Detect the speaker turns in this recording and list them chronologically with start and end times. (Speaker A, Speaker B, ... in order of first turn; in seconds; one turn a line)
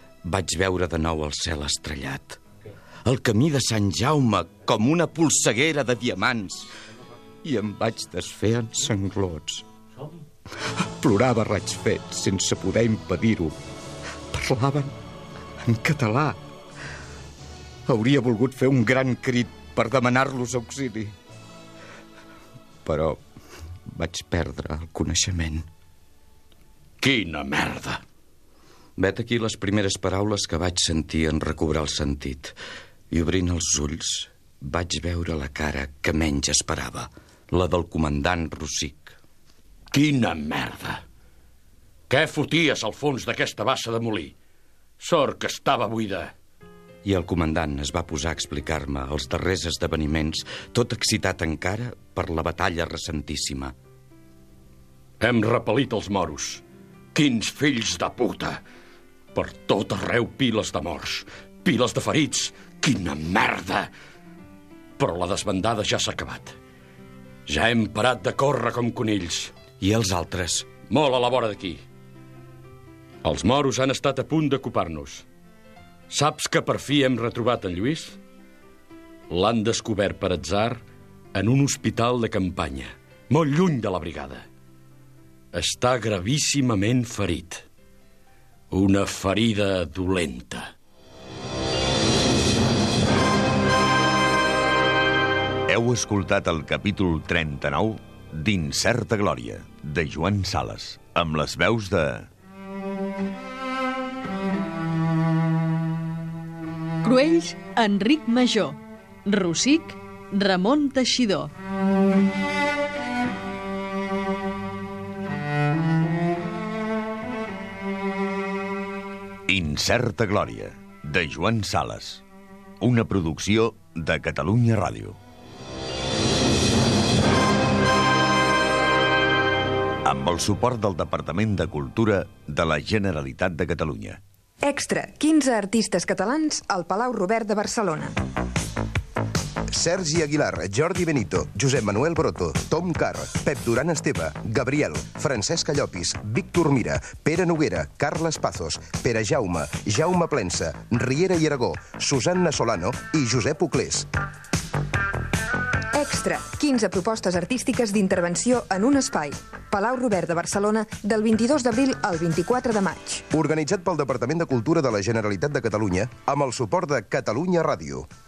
Speaker A: 0.2-2.4
Speaker A: 3.0-6.7
Speaker A: 7.4-9.7
Speaker A: 11.0-13.6
Speaker A: 14.3-14.9
Speaker A: 15.7-16.4
Speaker A: 17.9-21.1
Speaker A: 22.9-23.2
Speaker A: 23.9-25.7
Speaker B: 27.0-28.0
Speaker A: 29.0-32.5
Speaker A: 33.1-39.2
Speaker B: 39.9-41.0
Speaker B: 42.1-44.3
Speaker B: 45.0-46.3
Speaker A: 47.0-53.7
Speaker B: 55.2-56.6
Speaker B: 57.1-58.6
Speaker B: 59.4-63.9
Speaker B: 65.0-66.6
Speaker B: 67.5-69.5
Speaker A: 69.8-70.7
Speaker B: 70.8-71.8
Speaker B: 73.2-75.3
Speaker B: 76.1-78.2
Speaker B: 79.3-80.8
Speaker B: 81.3-84.5
Speaker B: 85.5-87.6
Speaker B: 88.7-90.7
Speaker C: 95.7-102.3
Speaker D: 107.0-111.5
Speaker C: 119.5-122.2
Speaker C: 122.8-125.2
Speaker C: 130.1-134.2
Speaker E: 134.7-138.2
Speaker F: 139.7-154.1
Speaker E: 155.9-163.2
Speaker F: 163.3-168.1